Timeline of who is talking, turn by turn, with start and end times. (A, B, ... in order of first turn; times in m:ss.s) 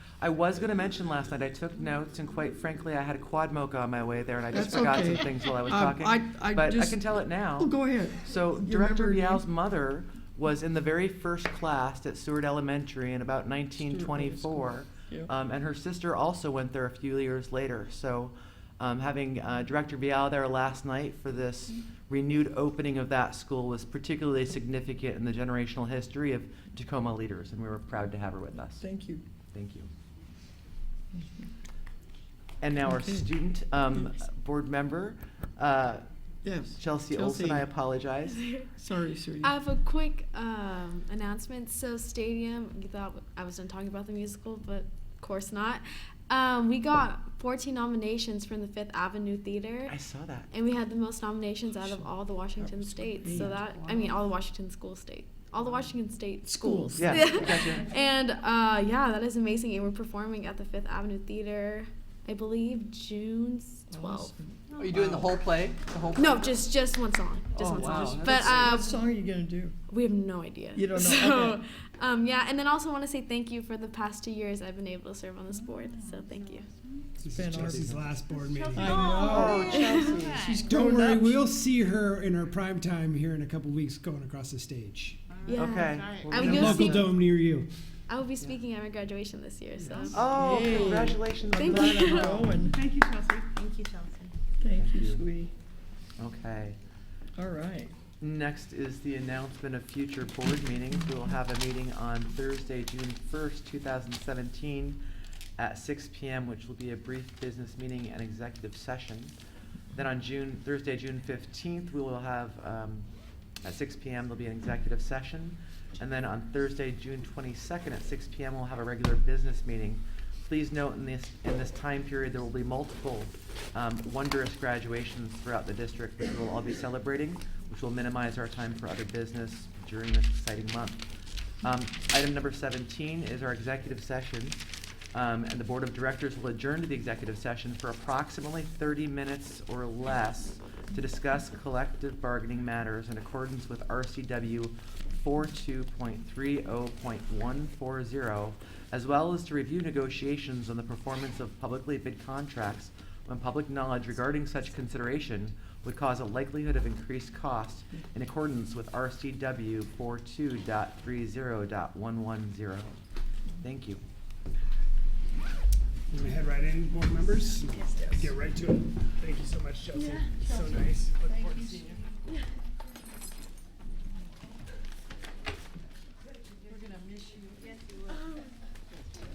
0:00.2-0:28.8 A
0:04.5-0:09.4 B
0:13.8-0:15.3 B
0:28.8-0:29.2 B
0:29.5-0:29.9 A
0:31.1-0:31.5 B
0:32.6-0:36.0 A
0:32.9-0:33.3 B
0:36.4-0:37.7 B
0:36.8-0:38.5 A
0:38.3-0:38.7 C
0:38.8-0:39.5 B
0:39.4-0:50.0 C
0:49.9-0:50.5 A
0:50.5-1:04.3 C
0:51.8-0:54.1 B
0:56.4-0:57.6 B
0:57.0-0:57.9 A
1:03.9-1:05.2 B
1:04.7-1:06.6 D
1:04.9-1:05.7 A
1:06.1-1:09.0 C
1:07.6-1:08.7 A
1:07.7-1:08.4 D
1:08.4-1:09.7 B
1:09.9-1:16.7 C
1:10.7-1:11.6 B
1:17.2-1:19.5 E
1:17.3-1:18.1 B
1:18.5-1:20.6 F
1:18.7-1:21.4 B
1:19.2-1:19.8 A
1:19.5-1:20.2 C
1:20.5-1:25.4 E
1:25.4-1:26.9 F
1:25.4-1:27.2 C
1:25.5-1:26.9 A
1:26.3-1:27.7 E
1:28.1-1:30.8 C
1:30.1-1:32.5 A
1:30.2-1:32.8 B
1:31.5-1:32.4 C
1:32.7-1:34.3 F
1:34.6-1:35.5 B
1:34.8-1:35.2 A
1:36.2-1:36.8 A
1:37.4-1:37.9 B
1:38.2-1:45.0 A
1:45.6-1:49.3 A
1:49.9-1:53.1 A
1:53.6-2:11.0 A
2:11.6-2:14.6 A
2:15.1-2:43.0 A
2:43.6-2:44.0 A
2:46.1-2:52.0 E
2:47.8-2:48.3 C
2:50.0-2:50.3 C
2:56.7-2:58.1 F
2:58.1-2:58.6 C